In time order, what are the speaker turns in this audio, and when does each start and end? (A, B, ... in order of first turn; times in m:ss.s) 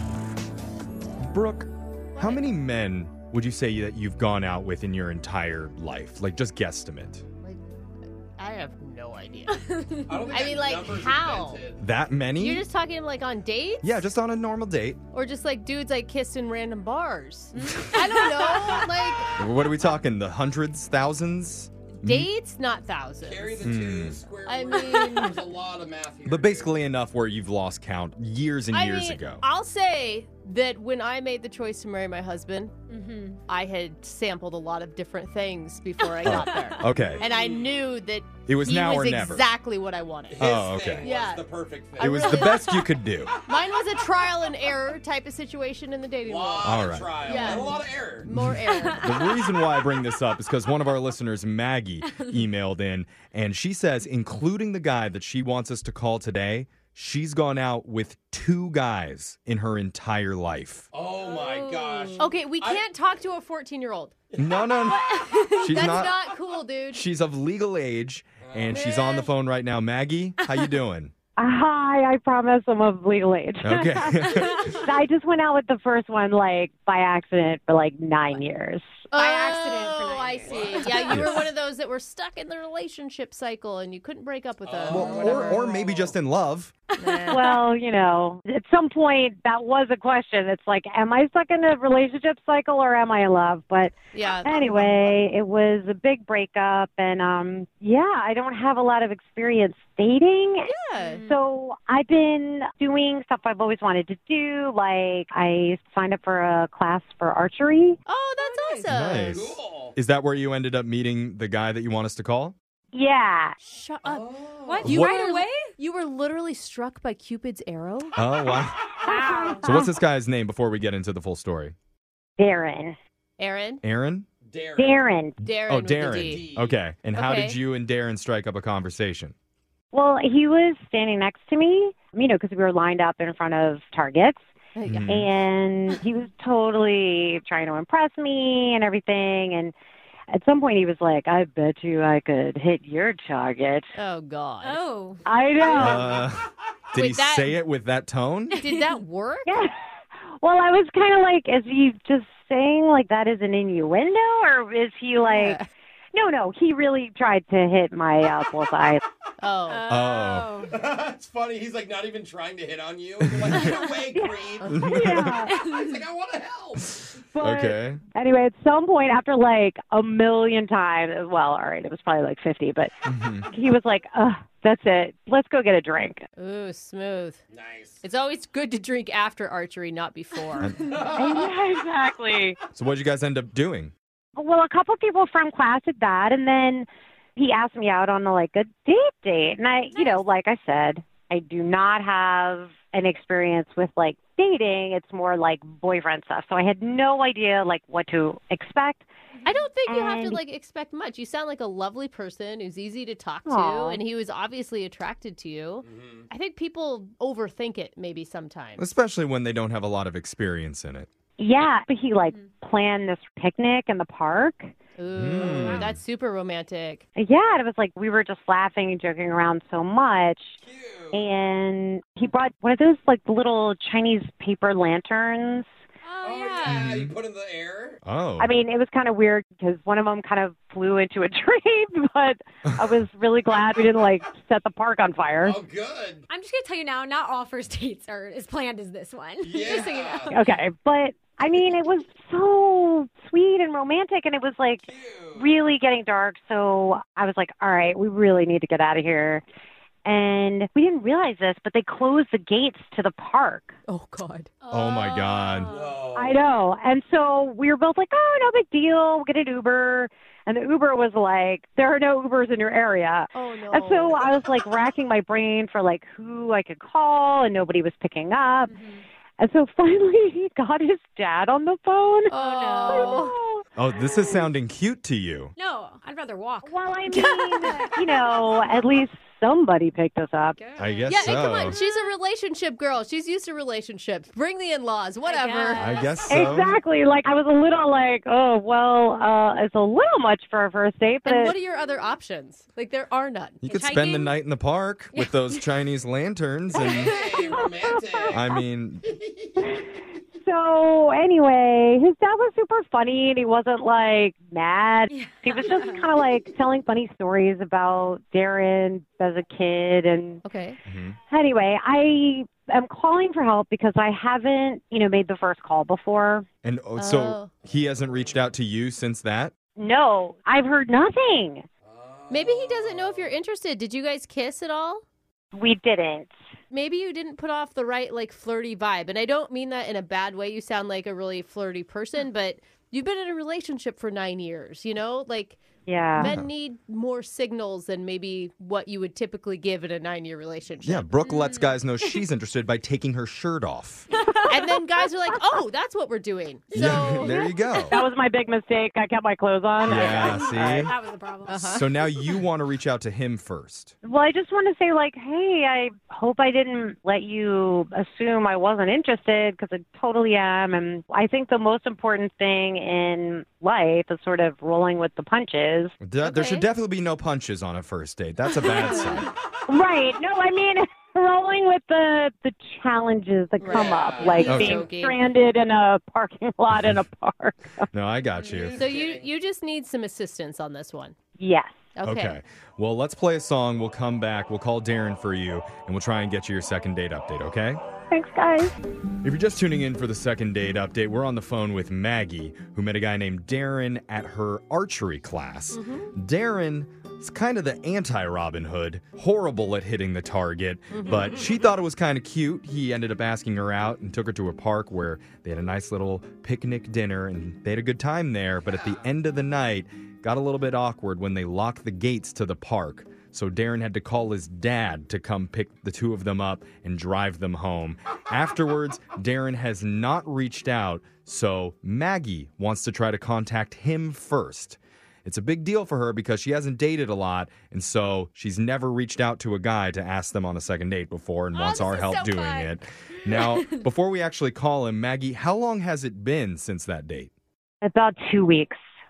0:01.2-0:07.2 A
0:02.1-0:02.4 B
0:08.4-0:09.6 B
0:09.6-0:10.2 C
0:10.1-0:11.8 D
0:10.2-0:11.6 B
0:11.8-0:12.6 A
0:12.4-0:14.0 B
0:13.8-0:15.0 A
0:15.1-0:19.4 B
0:17.5-0:18.9 C
0:19.4-0:22.3 A
0:22.0-0:23.7 B
0:23.2-0:26.7 D
0:23.6-0:24.2 A
0:24.4-0:25.4 B
0:26.2-0:29.4 A
0:28.7-0:32.7 B
0:32.9-0:33.4 C
0:33.5-0:42.4 B
0:36.2-0:36.9 C
0:36.2-0:37.2 A
0:37.2-0:37.7 D
0:38.5-0:39.5 A
0:40.3-0:42.3 D
0:40.4-0:41.1 A
0:42.0-0:43.3 A
0:42.2-0:42.9 C
0:43.4-0:49.3 B
0:46.2-0:48.3 D
0:46.6-0:47.2 A
0:48.7-0:49.8 C
0:49.0-1:00.9 A
0:52.0-0:52.5 C
1:00.9-1:02.8 D
1:01.2-1:02.3 C
1:02.2-1:04.1 B
1:04.3-1:04.8 D
1:04.4-1:06.2 A
1:04.8-1:05.9 C
1:05.6-1:07.0 B
1:06.9-1:11.1 A
1:08.4-1:09.3 D
1:10.4-1:10.7 C
1:11.4-1:18.9 E
1:13.6-1:14.7 A
1:14.3-1:14.9 C
1:19.1-1:25.7 B
1:19.1-1:21.4 C
1:20.4-1:21.1 D
1:21.1-1:21.4 A
1:24.6-1:26.1 D
1:24.9-1:26.7 A
1:27.0-1:27.6 B
1:27.0-1:27.4 C
1:27.3-1:40.7 E
1:34.1-1:34.7 B
1:40.6-1:41.2 B
1:41.0-1:41.4 C
1:41.2-1:48.0 E
1:48.1-1:49.4 B
1:48.4-1:48.8 C
1:48.9-1:52.5 A
1:49.2-1:49.9 D
1:52.9-1:53.6 E
1:53.6-1:54.3 B
1:54.0-1:54.9 D
1:54.6-1:55.6 C
1:54.8-1:55.2 A
1:54.8-1:58.2 B
1:58.2-1:58.9 A
1:59.0-2:00.0 E
1:59.0-1:59.7 C
1:59.6-2:01.7 A
2:02.4-2:03.0 E
2:03.4-2:03.8 B
2:03.8-2:04.2 A
2:04.4-2:05.1 D
2:04.8-2:05.4 E
2:05.4-2:06.5 B
2:05.5-2:09.3 A
2:06.0-2:06.8 D
2:07.1-2:07.6 B
2:09.9-2:14.4 E
2:14.8-2:15.1 B
2:14.8-2:15.3 A
2:15.1-2:19.7 E
2:20.3-2:23.9 E
2:23.9-2:24.8 B
2:24.6-2:26.0 C
2:25.2-2:26.2 E
2:25.7-2:28.6 A
2:26.9-2:27.6 B
2:28.5-2:29.0 C
2:28.6-2:29.6 B
2:29.4-2:35.6 E
2:35.2-2:35.7 B
2:36.1-2:39.0 E
2:39.4-2:39.8 B
2:39.6-2:40.8 C
2:39.9-2:40.5 A
2:40.7-2:44.8 D
2:43.2-2:43.7 A
2:43.6-2:43.9 C
2:44.1-2:45.5 E
2:44.7-2:45.4 A
2:45.3-2:46.0 C
2:45.5-2:46.9 D
2:46.9-2:48.0 A
2:47.2-2:52.9 E
2:53.0-2:53.5 A
2:53.5-2:56.2 E
2:56.4-2:57.4 B
2:57.5-2:58.0 D
2:58.0-3:00.8 B
3:00.6-3:00.9 A
3:00.8-3:01.5 D
3:01.0-3:02.6 E
3:02.7-3:03.9 A
3:04.4-3:19.1 E
3:09.9-3:10.3 C
3:19.3-3:19.6 C
3:19.4-3:28.8 B
3:19.9-3:20.4 E
3:23.4-3:24.0 E
3:25.8-3:26.3 D
3:28.8-3:31.1 A
3:31.4-3:34.7 E
3:35.0-3:37.0 B
3:35.1-3:36.0 A
3:35.5-3:35.8 C
3:37.2-3:40.6 E
3:40.6-3:41.3 D
3:41.1-3:45.7 E
3:46.0-3:46.8 C
3:46.2-3:48.0 D
3:46.6-3:47.2 A
3:48.0-3:48.6 A
3:48.4-3:55.6 E
3:55.4-3:56.2 D
3:56.3-4:00.4 C
3:59.4-4:00.3 D
4:00.3-4:09.4 E
4:04.8-4:05.5 D
4:10.0-4:13.7 E
4:13.9-4:14.5 B
4:14.6-4:16.0 C
4:14.7-4:15.8 A
4:15.7-4:16.4 D
4:16.1-4:28.8 E
4:23.3-4:24.3 B
4:28.7-4:29.0 C
4:29.4-4:32.3 E
4:32.3-4:33.3 B
4:32.4-4:33.3 C
4:32.9-4:34.5 E
4:33.8-4:35.5 A
4:35.6-4:37.9 C
4:36.6-4:40.6 E
4:40.5-4:42.1 C
4:40.8-4:41.8 A
4:41.1-4:46.1 B
4:45.2-4:46.0 C
4:45.8-4:46.8 A
4:46.3-4:51.5 E
4:51.2-4:54.1 B
4:53.6-4:57.2 A
4:53.7-4:54.3 C
4:55.1-4:55.6 C
4:56.8-4:58.4 D
4:56.9-4:58.6 E
4:57.2-4:57.6 C
4:58.3-4:59.1 A
4:59.0-4:59.6 D
4:59.6-4:59.9 E
5:00.4-5:10.4 E
5:05.1-5:06.0 C
5:10.4-5:10.8 B
5:10.8-5:11.2 A
5:11.3-5:16.4 E
5:16.6-5:19.5 A
5:17.0-5:17.5 B
5:17.8-5:18.3 D
5:19.8-5:21.6 E
5:21.8-5:23.4 D
5:22.3-5:25.0 B
5:25.5-5:26.3 E
5:26.7-5:35.6 B
5:35.9-5:36.3 E
5:36.1-5:41.1 B
5:36.2-5:36.5 A
5:40.8-5:44.1 A
5:41.2-5:42.2 C
5:44.1-5:44.5 C
5:44.5-5:47.5 B
5:46.7-5:48.0 A
5:46.7-5:48.0 C
5:47.9-5:50.9 E
5:49.8-5:50.9 A
5:49.9-5:52.4 C
5:51.5-5:51.9 B
5:51.7-5:53.9 A
5:54.0-6:05.9 E
6:06.0-6:09.3 A
6:06.2-6:06.7 B
6:08.6-6:09.2 C
6:08.6-6:09.2 B
6:09.7-6:17.9 E
6:13.6-6:15.2 B
6:13.6-6:14.8 D
6:14.4-6:14.8 A
6:17.9-6:18.8 A
6:18.4-6:19.3 D
6:18.7-6:21.1 B
6:21.4-6:21.8 E
6:22.0-6:22.4 B
6:22.0-6:27.8 A
6:28.1-6:28.7 E
6:29.2-7:17.3 A
6:35.7-6:36.1 B
6:40.9-6:41.3 B
7:11.6-7:12.7 C
7:13.2-7:13.8 C
7:17.8-7:18.8 E